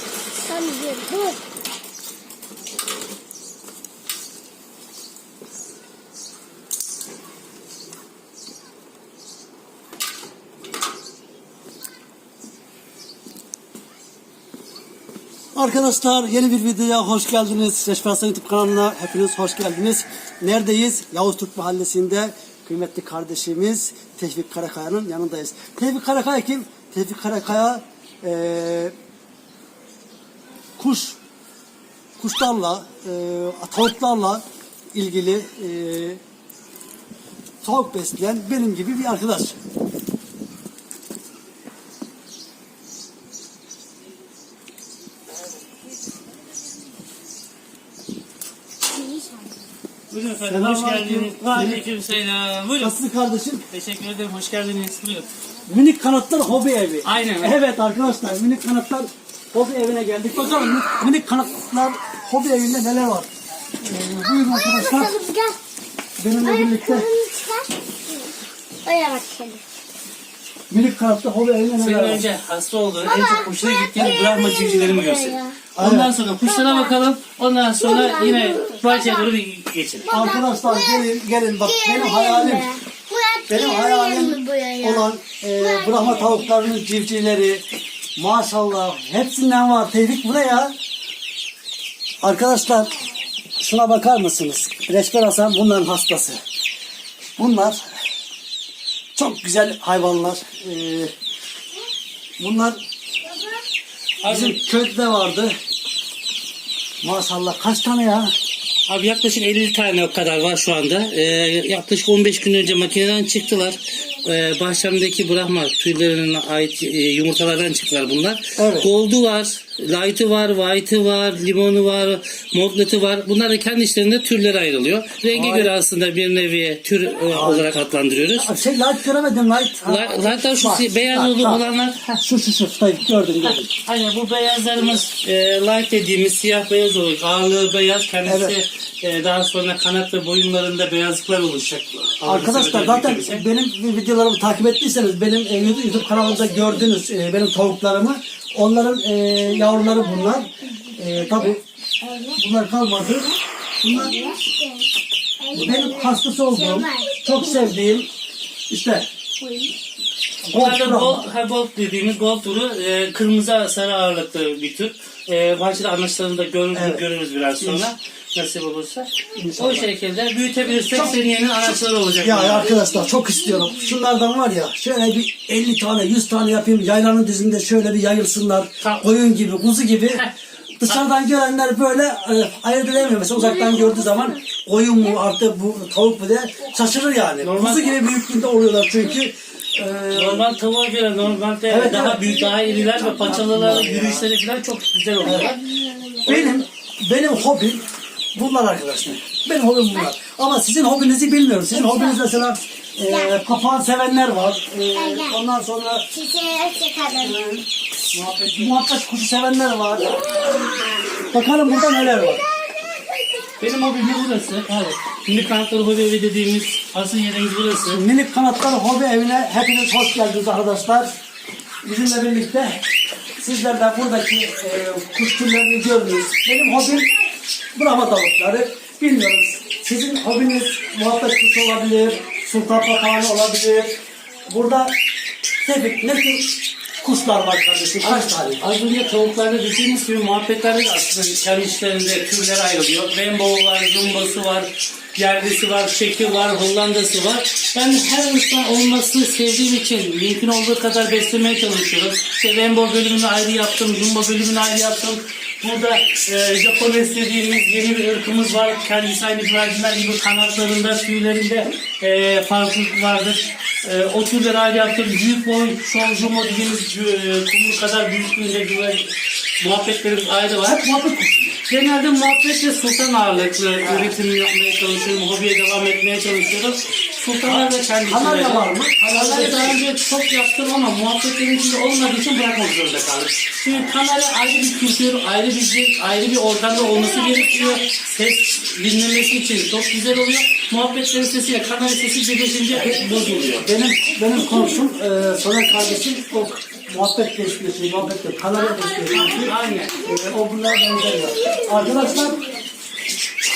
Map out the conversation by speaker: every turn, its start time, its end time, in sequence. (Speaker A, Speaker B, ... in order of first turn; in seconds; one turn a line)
Speaker A: 0.4-1.4
Speaker B: 15.5-28.9
Speaker B: 30.8-31.2
Speaker B: 32.2-34.4
Speaker B: 34.9-36.2
Speaker B: 37.6-39.6
Speaker A: 48.9-49.6
Speaker C: 50.1-52.9
Speaker B: 50.4-51.9
Speaker B: 52.8-53.6
Speaker C: 53.7-55.3
Speaker B: 55.7-63.3
Speaker C: 57.0-57.6
Speaker B: 63.8-65.2
Speaker A: 64.4-65.6
Speaker B: 66.2-67.1
Speaker A: 66.4-68.3
Speaker A: 68.8-69.6
Speaker B: 70.7-72.2
Speaker C: 71.8-80.1
Speaker A: 73.2-75.6
Speaker B: 75.7-76.1
Speaker A: 76.4-76.9
Speaker A: 77.8-79.3
Speaker A: 80.1-81.0
Speaker B: 80.1-82.7
Speaker A: 81.6-86.5
Speaker B: 83.5-87.6
Speaker B: 88.2-90.7
Speaker B: 92.2-93.0
Speaker B: 93.6-96.4
Speaker B: 97.4-97.9
Speaker B: 99.1-101.1
Speaker B: 102.4-102.8
Speaker C: 104.2-104.6
Speaker B: 104.2-105.5
Speaker B: 107.0-108.3
Speaker C: 108.9-128.5
Speaker B: 118.6-118.9
Speaker B: 125.3-125.7
Speaker B: 127.3-127.8
Speaker B: 128.3-131.6
Speaker C: 129.8-132.2
Speaker B: 132.2-133.7
Speaker C: 133.4-143.5
Speaker B: 138.2-138.6
Speaker B: 142.2-151.6
Speaker A: 149.6-152.4
Speaker B: 152.3-154.2
Speaker A: 153.0-153.4
Speaker A: 153.9-154.9
Speaker A: 155.4-157.7
Speaker B: 155.5-158.1
Speaker B: 158.7-159.1
Speaker A: 159.4-159.7
Speaker B: 160.4-161.2
Speaker C: 160.5-172.7
Speaker B: 166.7-167.0
Speaker B: 167.6-167.9
Speaker B: 169.3-169.9
Speaker B: 172.2-180.2
Speaker A: 173.1-173.7
Speaker C: 178.8-179.1
Speaker B: 180.8-190.4
Speaker A: 183.6-184.3
Speaker C: 187.4-188.0
Speaker C: 190.1-195.6
Speaker B: 191.7-192.3
Speaker A: 192.2-193.3
Speaker B: 193.2-194.2
Speaker A: 195.2-196.5
Speaker B: 195.2-195.6
Speaker B: 196.2-206.1
Speaker A: 201.7-202.2
Speaker A: 203.1-203.3
Speaker A: 204.9-205.4
Speaker A: 206.1-207.5
Speaker B: 207.2-207.6
Speaker C: 208.1-208.7
Speaker B: 208.4-210.2
Speaker B: 211.3-212.4
Speaker C: 213.6-218.0
Speaker B: 214.7-215.0
Speaker B: 217.9-221.1
Speaker B: 221.8-222.8
Speaker B: 223.4-227.1
Speaker B: 227.7-234.9
Speaker B: 235.6-238.6
Speaker C: 238.0-270.8
Speaker B: 270.6-271.6
Speaker C: 271.7-293.7
Speaker B: 273.8-274.1
Speaker B: 277.4-279.8
Speaker B: 292.7-302.5
Speaker C: 299.1-300.0
Speaker A: 301.5-302.6